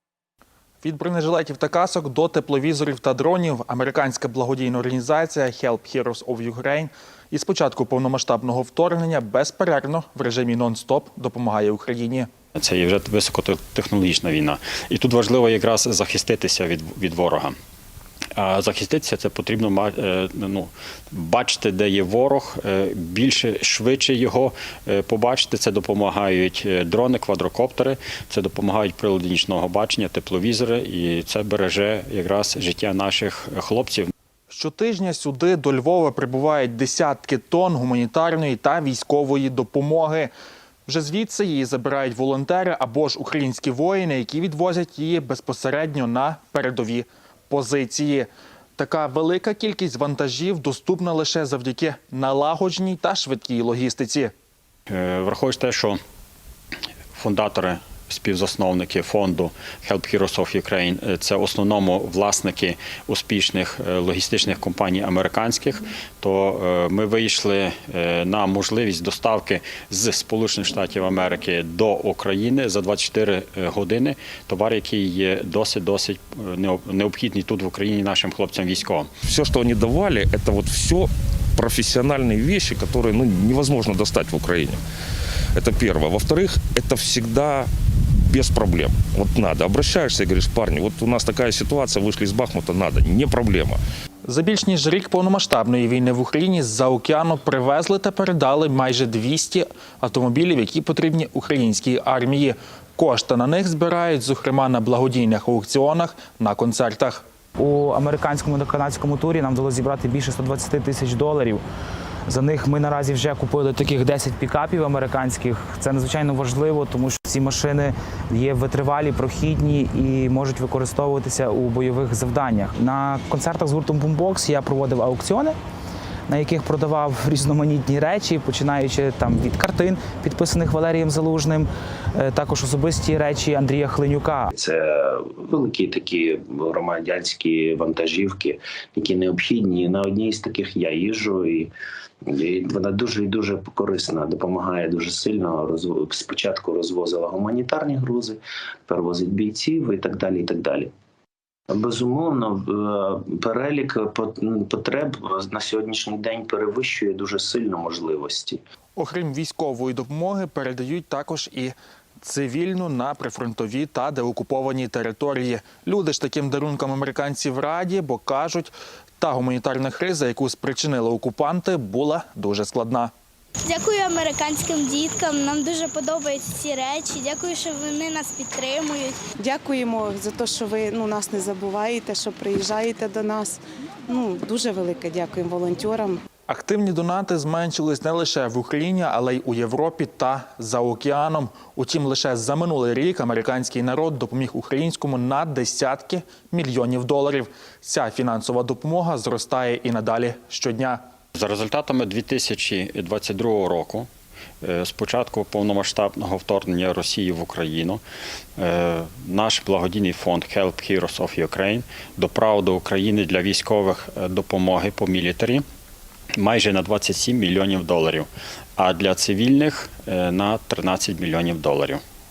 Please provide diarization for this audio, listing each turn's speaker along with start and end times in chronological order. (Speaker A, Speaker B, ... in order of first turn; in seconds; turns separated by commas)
Speaker A: 0.8-12.3, Speaker B: 12.6-17.6, Speaker B: 18.4-34.1, Speaker A: 34.5-40.3, Speaker A: 40.9-54.3, Speaker B: 54.9-56.0, Speaker B: 57.1-79.1, Speaker C: 79.3-84.8, Speaker C: 85.6-87.7, Speaker C: 88.2-93.8, Speaker A: 94.2-107.2, Speaker D: 107.6-111.6, Speaker D: 112.3-125.6, Speaker D: 126.3-134.5, Speaker E: 134.5-141.7, Speaker E: 142.3-150.9, Speaker E: 151.7-158.6, Speaker A: 159.0-173.1, Speaker F: 173.7-179.2, Speaker G: 179.4-186.2, Speaker A: 186.5-201.0, Speaker B: 201.3-204.1, Speaker B: 204.6-208.0, Speaker B: 208.6-215.7, Speaker B: 216.4-222.0